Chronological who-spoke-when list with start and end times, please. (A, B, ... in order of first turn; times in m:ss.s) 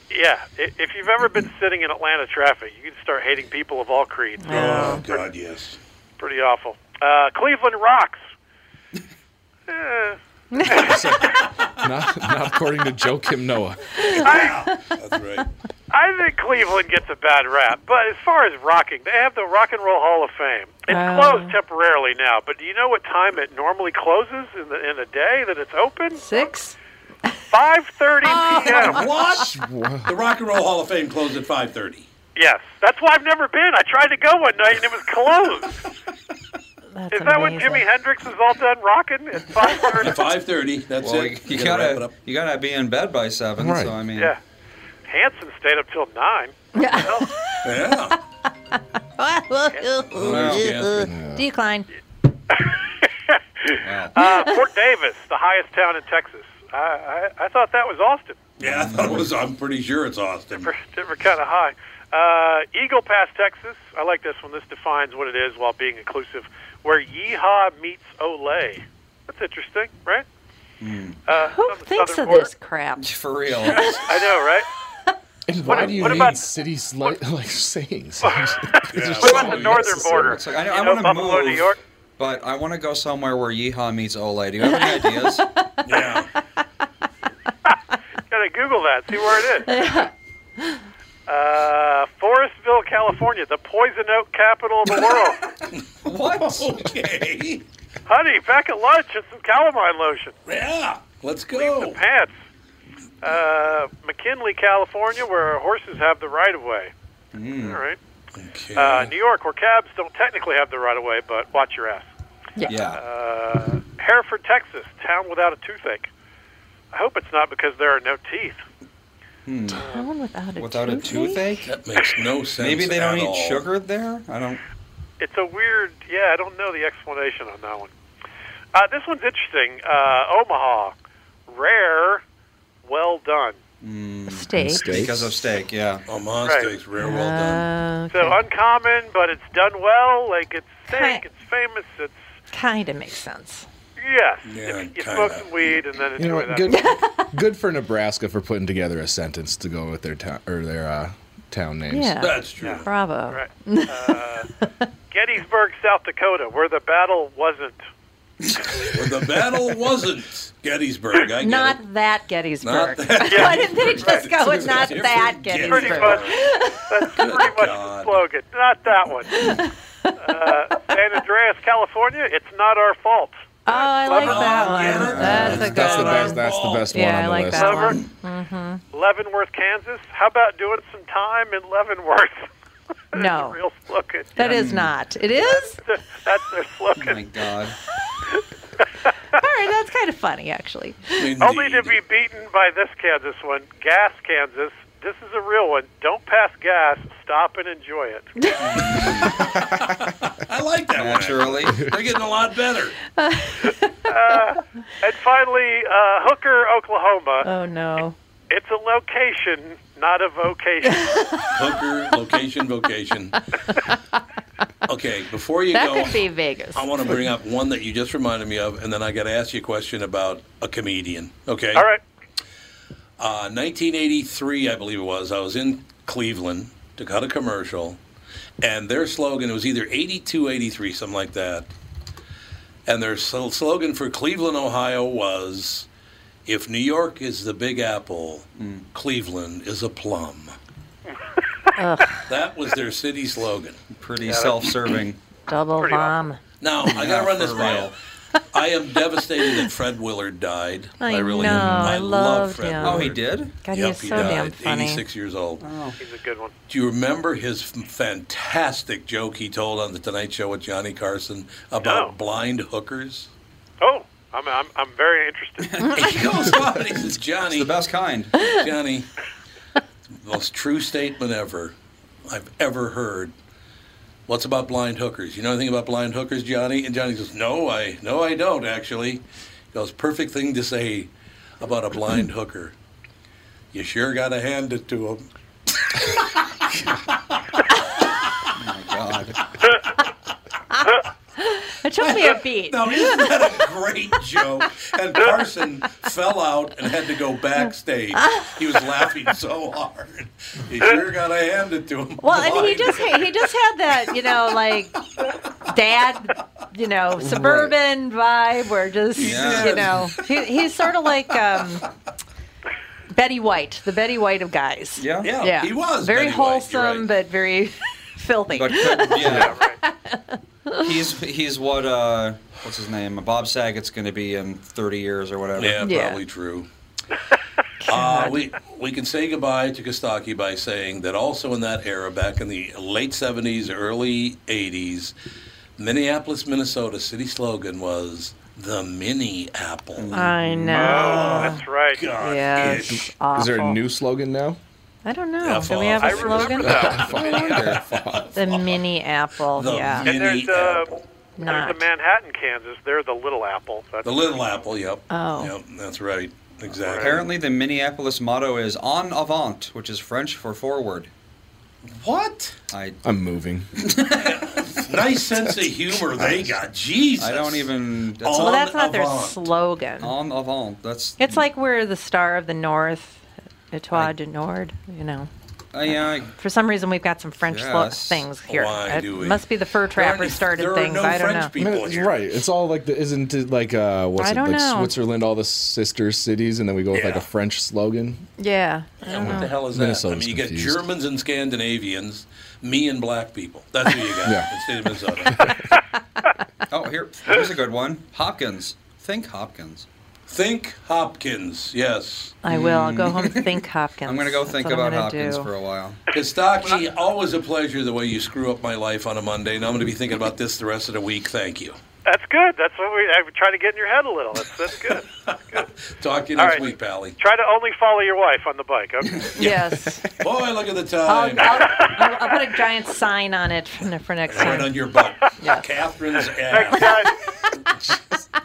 0:00.1-0:05.3 A
0:04.4-0:05.0 B
0:04.5-0:05.8 C
0:06.2-0:08.3 A
0:09.7-0:10.2 A
0:10.5-0:11.0 B
0:10.6-0:14.2 D
0:10.7-0:11.1 A
0:14.1-0:14.8 B
0:14.2-0:15.5 C
0:14.2-0:14.6 A
0:15.9-0:26.5 A
0:20.9-0:21.6 B
0:26.1-0:26.8 B
0:27.5-0:29.0 A
0:28.2-0:29.0 B
0:28.6-0:32.1 C
0:29.2-0:30.1 D
0:32.3-0:35.8 A
0:36.9-0:37.8 B
0:37.1-0:40.2 A
0:40.0-0:42.1 C
0:41.0-0:44.3 E
0:43.6-0:44.0 D
0:45.0-0:47.3 A
0:46.7-0:47.7 B
0:47.6-0:48.2 C
0:49.2-0:51.9 B
0:49.7-0:50.0 A
0:50.2-0:51.1 C
0:50.2-0:50.7 E
0:50.4-0:51.4 D
0:53.3-0:58.6 A
0:53.8-0:54.3 E
0:54.2-0:54.6 B
0:58.6-1:00.7 C
0:58.6-0:59.3 E
1:00.6-1:10.2 A
1:10.8-1:11.2 E
1:11.3-1:12.5 A
1:11.3-1:13.2 B
1:13.0-1:14.0 E
1:13.5-1:14.2 C
1:13.7-1:14.7 A
1:15.5-1:20.4 D
1:15.6-1:16.4 A
1:15.7-1:16.4 C
1:18.2-1:21.8 A
1:18.9-1:20.1 C
1:20.0-1:25.5 E
1:24.8-1:25.9 B
1:25.8-1:26.3 C
1:28.3-1:29.8 A
1:29.7-1:30.1 B
1:31.3-1:35.4 A
1:35.1-1:37.6 C
1:36.0-1:36.9 E
1:38.1-1:40.4 A
1:40.5-1:42.0 C
1:41.5-1:42.3 A
1:43.2-1:46.9 A
1:47.3-1:47.8 E
1:47.6-1:48.0 A
1:48.4-1:49.1 C
1:48.7-1:52.1 A
1:52.6-1:53.0 E
1:52.9-1:56.1 A
1:56.9-1:58.6 A
1:59.4-1:59.8 E
1:59.7-2:01.7 B
1:59.7-2:00.1 A
2:00.6-2:01.7 E
2:01.6-2:03.6 C
2:02.6-2:04.6 E
2:05.2-2:07.9 A
2:08.7-2:10.9 A
2:11.5-2:12.2 A
2:12.8-2:13.6 A
2:13.8-2:16.0 E
2:14.3-2:14.9 B
2:14.5-2:15.3 D
2:16.1-2:17.6 C
2:16.4-2:16.7 A
2:17.0-2:18.4 B
2:18.1-2:22.2 A
2:20.9-2:21.2 B
2:22.5-2:23.6 B
2:24.0-2:26.8 A
2:24.4-2:25.8 C
2:26.2-2:32.3 D
2:26.7-2:27.3 B
2:31.9-2:34.8 B
2:32.2-2:32.9 C
2:32.6-2:34.5 A
2:35.1-2:37.9 A
2:38.4-2:39.0 E
2:38.9-2:41.8 C
2:41.4-2:47.2 B
2:42.6-2:48.2 C
2:43.2-2:44.3 A
2:45.6-2:49.4 A
2:49.3-2:50.5 B
2:50.2-2:54.9 A
2:53.6-2:58.8 B
2:54.1-2:56.9 C
2:54.9-2:55.8 E
2:55.3-2:58.0 D
2:57.5-2:58.0 A
2:58.9-3:02.5 A
3:03.1-3:04.4 A
3:03.1-3:03.6 B
3:04.4-3:05.8 B
3:04.4-3:04.9 E
3:05.3-3:07.2 A
3:06.9-3:07.8 E
3:09.4-3:11.3 B
3:11.2-3:12.0 C
3:11.4-3:18.3 A
3:18.4-3:18.7 B
3:18.6-3:19.4 E
3:18.8-3:23.0 C
3:21.0-3:21.9 E
3:23.2-3:24.0 B
3:24.1-3:27.5 A
3:27.4-3:28.2 B
3:28.5-3:31.3 A
3:30.9-3:31.6 B
3:31.5-3:33.4 C
3:34.8-3:41.9 C
3:35.7-3:36.9 B
3:41.7-3:42.0 A
3:43.2-3:48.0 C
3:48.6-3:51.7 C
3:52.8-3:55.9 C
3:56.4-4:00.5 C
3:58.6-3:58.8 E
4:01.8-4:02.3 B
4:02.3-4:03.8 C
4:04.0-4:05.2 E
4:04.2-4:04.6 A
4:05.5-4:06.4 B
4:05.8-4:06.2 A
4:06.6-4:07.9 C
4:06.9-4:07.9 E
4:08.5-4:15.6 C
4:11.0-4:15.0 B
4:11.4-4:11.9 D
4:12.8-4:13.5 E
4:15.6-4:16.0 E
4:16.0-4:16.5 A
4:16.7-4:23.3 C
4:21.8-4:22.1 A
4:23.8-4:25.8 A
4:25.6-4:26.1 E
4:25.9-4:27.7 C
4:27.5-4:28.5 E
4:28.4-4:29.1 C
4:30.2-4:31.7 C
4:32.3-4:33.3 C
4:34.3-4:39.2 C
4:39.7-4:42.7 C
4:43.7-4:45.2 C
4:45.9-4:47.4 C
4:48.6-4:49.4 E
4:50.7-4:53.5 B
4:52.0-5:03.4 C
4:58.2-4:58.5 B
5:02.2-5:05.0 B
5:05.6-5:11.8 B
5:07.2-5:07.7 D
5:09.2-5:10.4 C
5:09.2-5:09.9 E
5:13.1-5:20.9 B
5:15.0-5:15.3 E
5:15.2-5:17.1 C
5:18.5-5:19.6 E
5:19.2-5:19.5 D
5:19.3-5:19.8 A
5:20.8-5:25.9 E
5:25.6-5:26.7 C
5:25.8-5:26.2 B
5:27.8-5:28.4 B
5:27.9-5:35.1 C
5:35.8-5:43.1 C
5:40.0-5:40.9 E
5:40.1-5:41.6 B
5:40.7-5:42.0 A
5:42.2-5:43.8 B
5:43.3-5:44.6 D
5:45.0-5:46.8 B
5:45.4-5:48.8 C
5:46.0-5:47.1 A
5:46.6-5:48.2 D
5:47.4-5:47.8 E
5:48.3-5:50.1 B
5:49.5-5:51.0 C
5:50.0-5:54.7 A
5:51.4-5:51.8 B
5:54.0-5:57.3 C
5:55.1-5:55.5 B
5:56.7-5:57.2 A
5:57.0-6:01.1 E
6:01.9-6:02.6 C
6:02.7-6:03.0 E
6:03.0-6:03.8 D
6:03.8-6:04.9 E
6:04.2-6:09.4 C
6:06.1-6:06.4 D
6:07.2-6:08.6 E
6:08.3-6:10.1 B
6:10.0-6:11.4 E
6:11.2-6:15.3 B
6:15.7-6:16.3 E
6:15.8-6:21.5 B
6:17.4-6:18.2 E
6:18.5-6:22.1 C
6:21.6-6:28.2 D
6:24.2-6:24.9 B
6:26.9-6:27.2 C
6:28.4-6:29.5 B
6:29.0-6:35.5 C
6:29.1-6:30.8 D
6:34.2-6:34.5 D
6:35.3-6:35.6 D
6:36.7-6:39.8 E
6:40.3-6:42.4 C
6:42.4-6:45.5 B
6:42.5-6:46.0 E
6:46.1-6:51.8 C
6:52.0-6:55.6 A
6:55.2-6:57.2 C
6:56.4-6:59.3 A
6:59.4-7:00.0 B
7:00.2-7:01.9 C
7:01.1-7:04.8 B
7:04.3-7:08.0 C
7:05.4-7:05.6 B
7:06.5-7:07.1 A